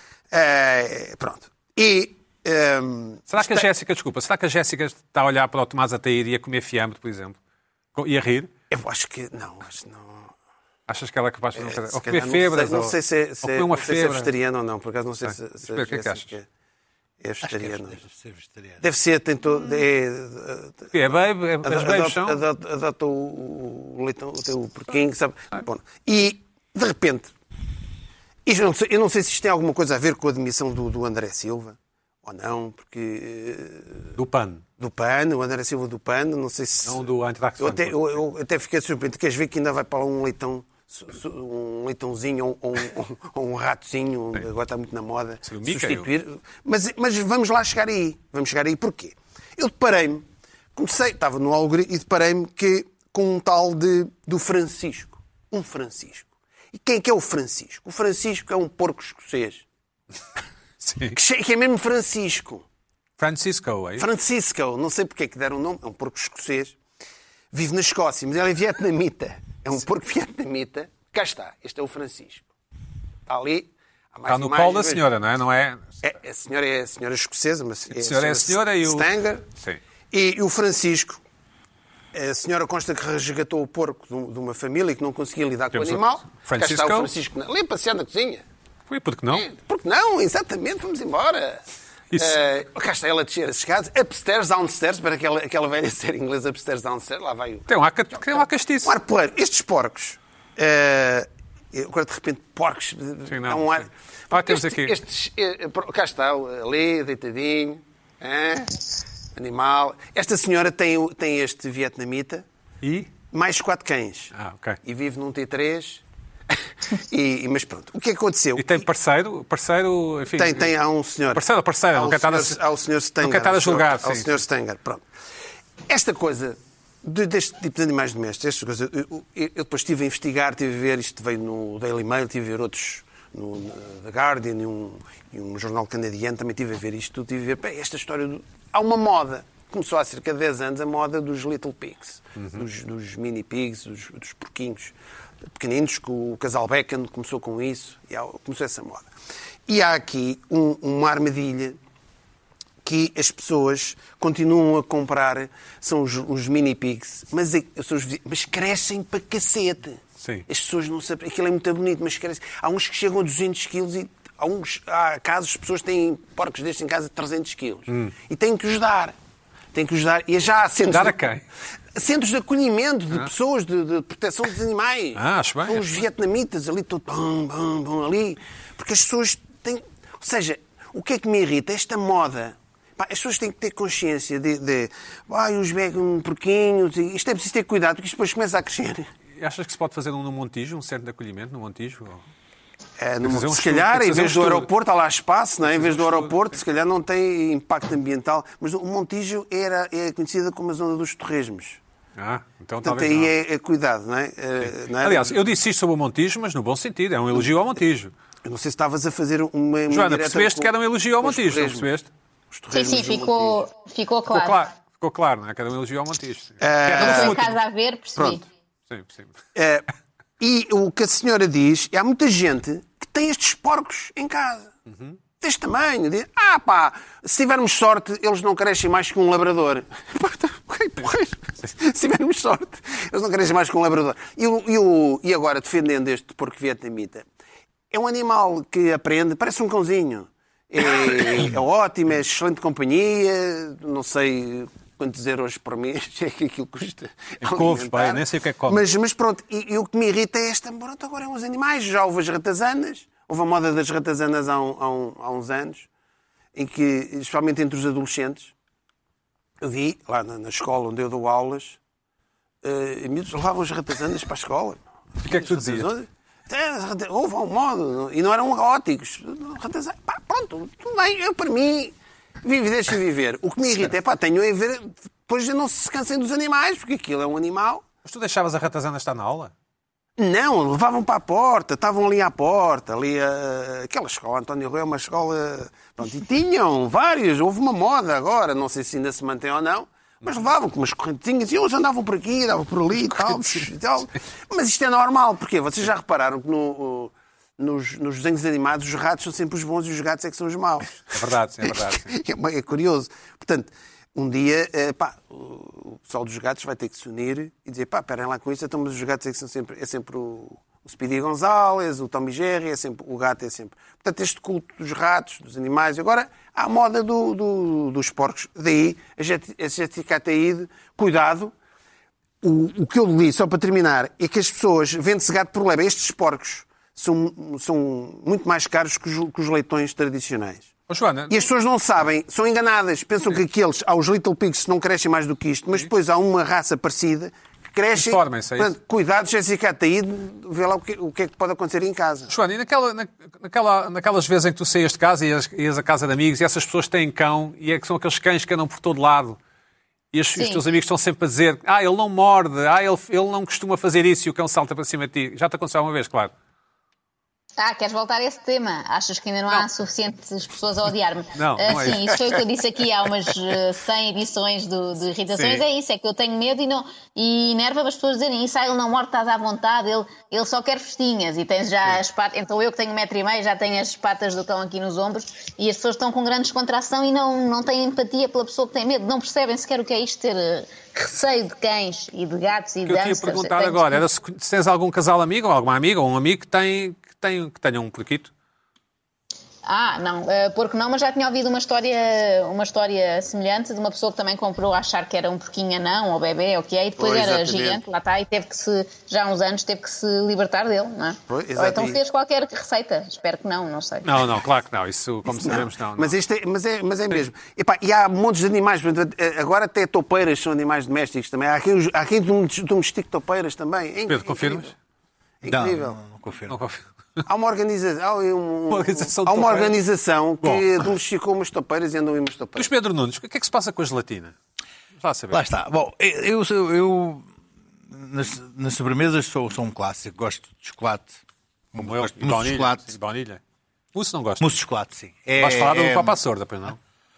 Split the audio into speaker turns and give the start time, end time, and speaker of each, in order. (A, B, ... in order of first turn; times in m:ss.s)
0:00.3-0:03.7 A
0:03.3-0:07.4 B
0:08.0-0:08.5 B
0:08.7-0:10.3 A
0:10.9-0:14.3 B
0:11.6-0:16.4 A
0:15.2-0:16.3 B
0:17.2-0:18.0 A
0:17.5-0:18.8 C
0:18.8-0:20.9 A
0:20.9-0:22.4 B
0:21.6-0:27.3 A
0:28.5-0:34.0 A
0:34.2-0:34.6 B
0:34.8-0:37.1 A
0:36.8-0:38.2 B
0:37.6-0:59.6 A
0:45.4-0:46.1 B
1:00.8-1:01.2 B
1:01.2-1:02.6 A
1:03.2-1:04.1 B
1:04.0-1:06.8 A
1:07.5-1:12.5 A
1:13.3-1:15.0 A
1:14.3-1:15.9 B
1:16.0-1:19.5 A
1:17.9-1:19.8 B
1:20.1-1:21.2 A
1:22.1-1:28.4 A
1:25.7-1:27.1 B
1:28.9-1:29.5 B
1:29.3-1:31.6 A
1:32.2-1:37.7 A
1:37.7-1:39.0 B
1:38.8-1:48.8 A
1:43.3-1:45.0 B
1:49.4-1:52.4 A
1:52.8-1:53.1 B
1:53.3-1:54.3 A
1:54.3-1:54.8 B
1:54.8-1:58.8 A
1:58.6-2:00.7 B
2:00.4-2:05.0 A
2:01.3-2:02.6 B
2:03.2-2:04.4 B
2:05.9-2:24.9 A
2:22.4-2:22.6 B
2:25.5-2:29.1 A
2:29.7-2:31.8 A
2:32.8-2:49.2 A
2:49.7-2:51.3 A
2:50.9-2:51.4 B
2:52.0-3:09.1 A
2:55.2-2:55.9 B
3:09.4-3:12.2 B
3:13.0-3:21.8 A
3:13.2-3:14.7 B
3:15.7-3:16.4 B
3:22.2-3:23.3 B
3:22.8-3:25.4 A
3:24.6-3:28.1 B
3:28.4-3:31.9 A
3:29.9-3:32.1 B
3:32.5-3:33.6 A
3:32.7-3:34.7 D
3:34.3-3:37.6 B
3:36.6-3:37.5 A
3:37.0-3:38.5 D
3:38.9-3:39.3 B
3:39.6-3:39.9 A
3:40.4-3:44.7 A
3:45.4-3:57.2 A
3:57.9-4:15.9 A
4:07.4-4:08.8 B
4:16.6-4:18.5 A
4:19.6-4:21.8 A
4:22.6-4:37.8 A
4:25.2-4:25.9 B
4:38.0-4:39.5 B
4:40.2-5:01.1 A
4:53.1-4:53.6 B
5:01.1-5:02.1 B
5:01.6-5:21.5 A
5:22.4-5:30.7 A
5:30.9-5:31.4 B
5:31.3-5:42.3 A
5:38.0-5:38.7 B
5:42.3-5:49.4 B
5:50.1-5:56.3 B
5:50.4-5:50.6 D
5:57.6-6:24.0 D
6:01.4-6:02.4 B
6:05.3-6:05.6 B
6:22.9-6:28.3 B
6:29.7-6:44.2 D
6:37.0-6:37.8 A
6:41.3-6:42.0 A
6:44.0-6:46.2 B
6:45.3-6:54.7 A
6:54.1-6:54.7 B
6:55.4-6:56.0 A
6:55.5-6:56.6 C
6:56.5-6:57.2 B
6:57.3-7:02.7 A
6:58.7-6:59.7 B
7:00.4-7:00.7 B
7:02.6-7:04.4 B
7:05.0-7:05.4 B
7:05.3-7:07.3 C
7:07.9-7:11.2 C
7:11.7-7:12.9 C
7:11.8-7:13.4 B
7:13.9-7:14.6 B
7:14.4-7:16.2 C
7:15.4-7:16.8 B